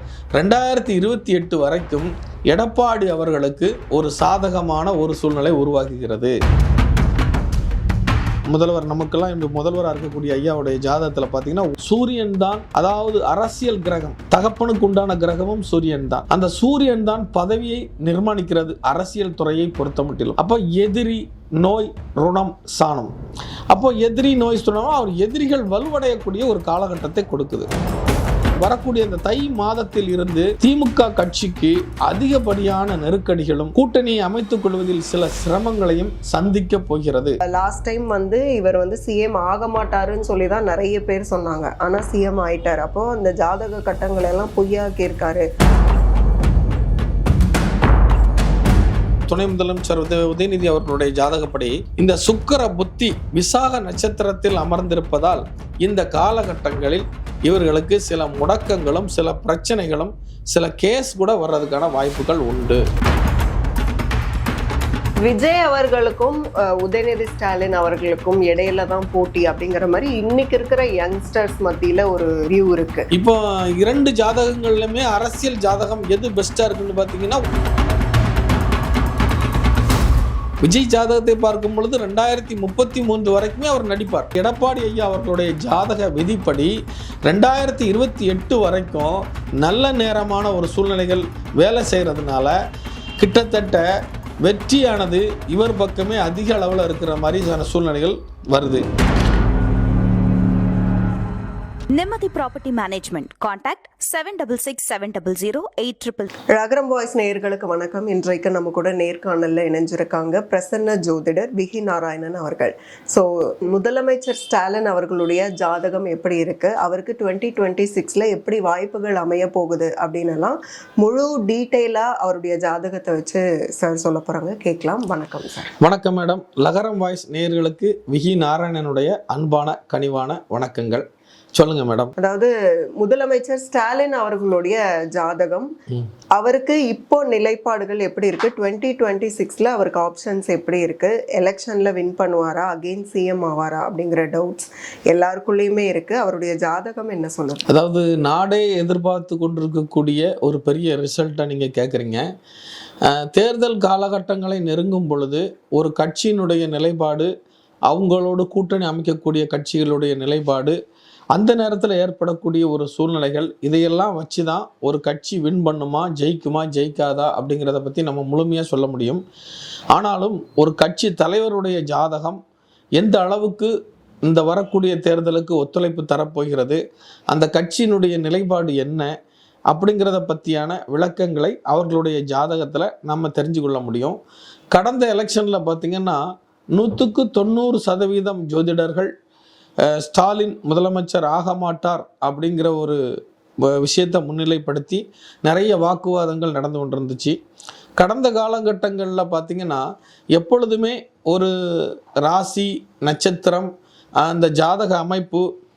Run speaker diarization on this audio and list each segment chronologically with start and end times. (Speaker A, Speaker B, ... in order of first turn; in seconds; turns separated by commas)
Speaker A: 0.4-6.3, Speaker A: 8.5-23.1, Speaker A: 23.7-27.7, Speaker A: 28.6-37.4, Speaker B: 37.5-45.5, Speaker A: 49.3-62.8, Speaker B: 65.2-73.1, Speaker A: 73.1-77.4, Speaker A: 80.6-86.7, Speaker A: 87.3-92.6, Speaker A: 93.2-93.9, Speaker A: 94.4-98.8, Speaker C: 101.9-106.3, Speaker B: 106.5-125.7, Speaker A: 125.8-132.1, Speaker B: 132.2-135.7, Speaker B: 136.4-147.7, Speaker A: 147.7-152.2, Speaker A: 153.1-157.3, Speaker A: 157.9-160.8, Speaker A: 161.3-169.2, Speaker A: 169.9-172.4, Speaker A: 173.0-173.7, Speaker A: 174.2-179.1, Speaker A: 179.7-184.2, Speaker A: 184.7-186.2, Speaker A: 186.7-189.1, Speaker A: 189.9-193.0, Speaker A: 193.7-197.4, Speaker A: 198.0-205.5